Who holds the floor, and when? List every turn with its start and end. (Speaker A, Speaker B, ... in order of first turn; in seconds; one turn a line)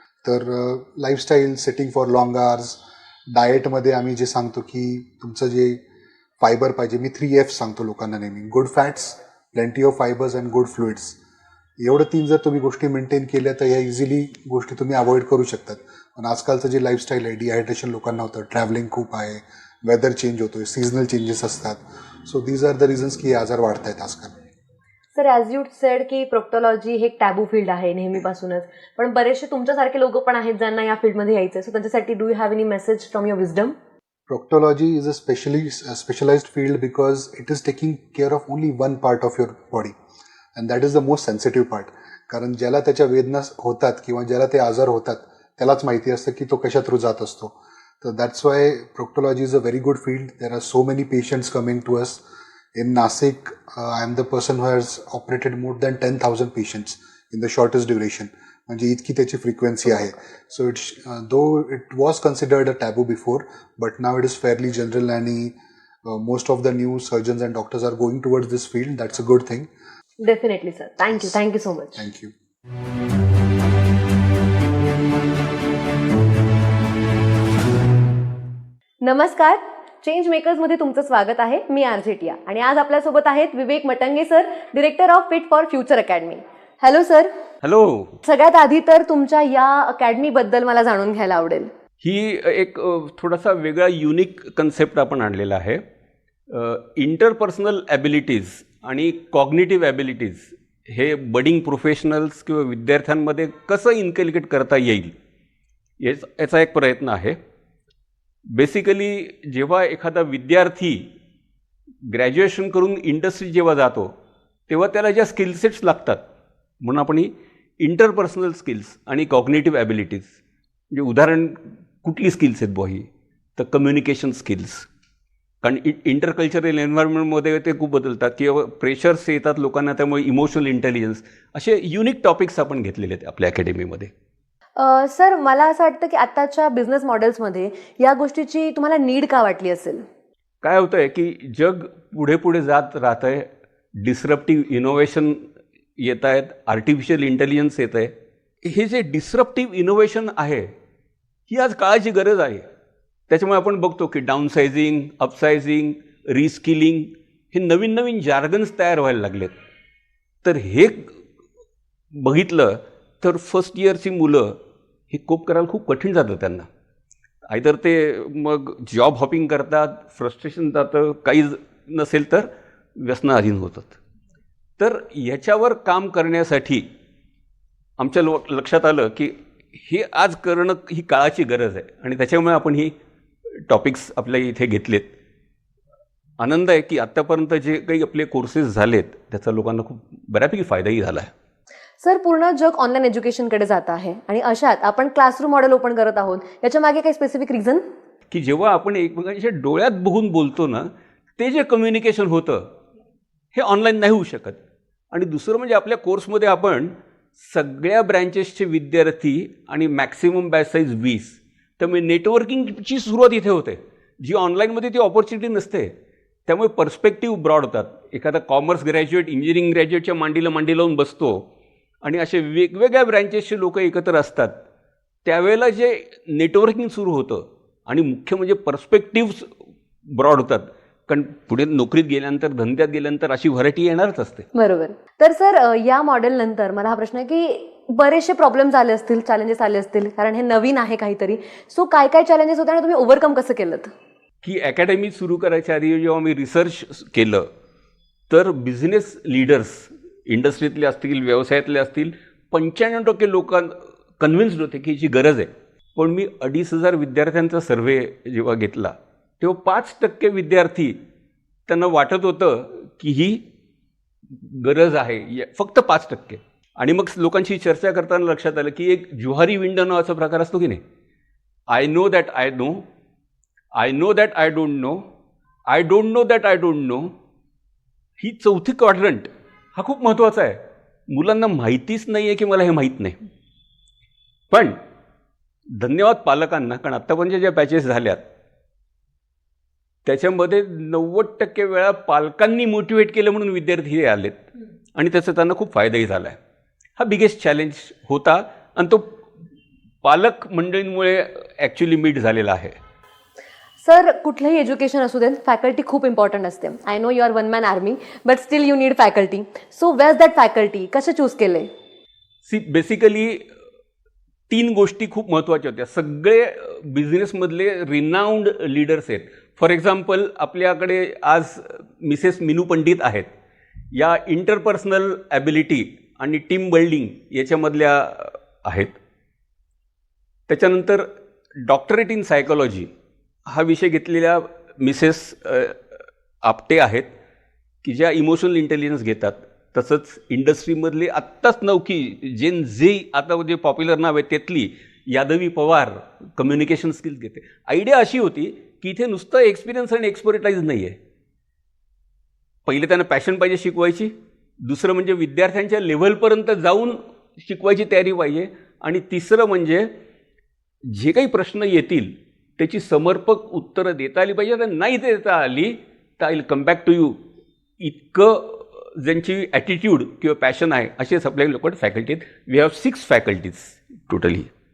Speaker A: 0.2-5.8
Speaker A: 6.4-11.2
Speaker A: 11.8-24.4
Speaker B: 25.1-33.7
Speaker A: 34.3-39.9
Speaker A: 40.5-52.2
Speaker A: 52.7-69.7
Speaker B: 70.2-72.0
Speaker A: 71.9-72.3
Speaker B: 79.0-87.3
Speaker C: 87.6-88.2
Speaker B: 88.2-91.7
Speaker C: 92.0-95.8
Speaker C: 96.5-105.1
Speaker C: 106.0-107.4
Speaker C: 108.5-111.1
Speaker C: 112.0-114.1
Speaker C: 114.7-116.2
Speaker C: 116.8-120.3
Speaker C: 120.9-124.9
Speaker C: 125.6-134.1
Speaker B: 134.8-140.0
Speaker C: 140.6-145.4
Speaker C: 146.0-150.7
Speaker C: 151.5-152.7
Speaker C: 153.3-159.5
Speaker C: 160.4-161.1
Speaker C: 162.1-164.6
Speaker C: 165.1-166.7
Speaker C: 167.5-174.0
Speaker C: 174.8-176.9
Speaker C: 178.0-182.9
Speaker C: 183.7-185.1
Speaker C: 186.4-191.3
Speaker B: 192.0-197.9
Speaker C: 198.3-202.7
Speaker C: 203.5-204.6
Speaker C: 205.1-215.9
Speaker C: 216.5-221.5
Speaker C: 222.0-224.6
Speaker C: 225.2-229.5
Speaker C: 230.1-234.4
Speaker B: 234.5-243.9
Speaker C: 244.4-247.5
Speaker C: 248.3-261.0
Speaker C: 261.7-263.4
Speaker C: 264.3-270.8
Speaker C: 271.7-272.8
Speaker C: 273.7-275.0
Speaker C: 275.7-277.1
Speaker C: 278.2-283.2
Speaker C: 284.5-284.8
Speaker C: 285.7-288.2
Speaker C: 290.0-294.4
Speaker C: 294.9-296.4
Speaker C: 297.0-299.2
Speaker C: 300.0-302.8
Speaker B: 303.8-311.7
Speaker C: 312.4-313.5
Speaker C: 314.5-323.3
Speaker C: 323.9-329.0
Speaker C: 330.5-332.9
Speaker C: 333.5-337.1
Speaker C: 337.8-351.0
Speaker C: 352.7-359.9
Speaker C: 360.9-367.2
Speaker C: 367.8-374.5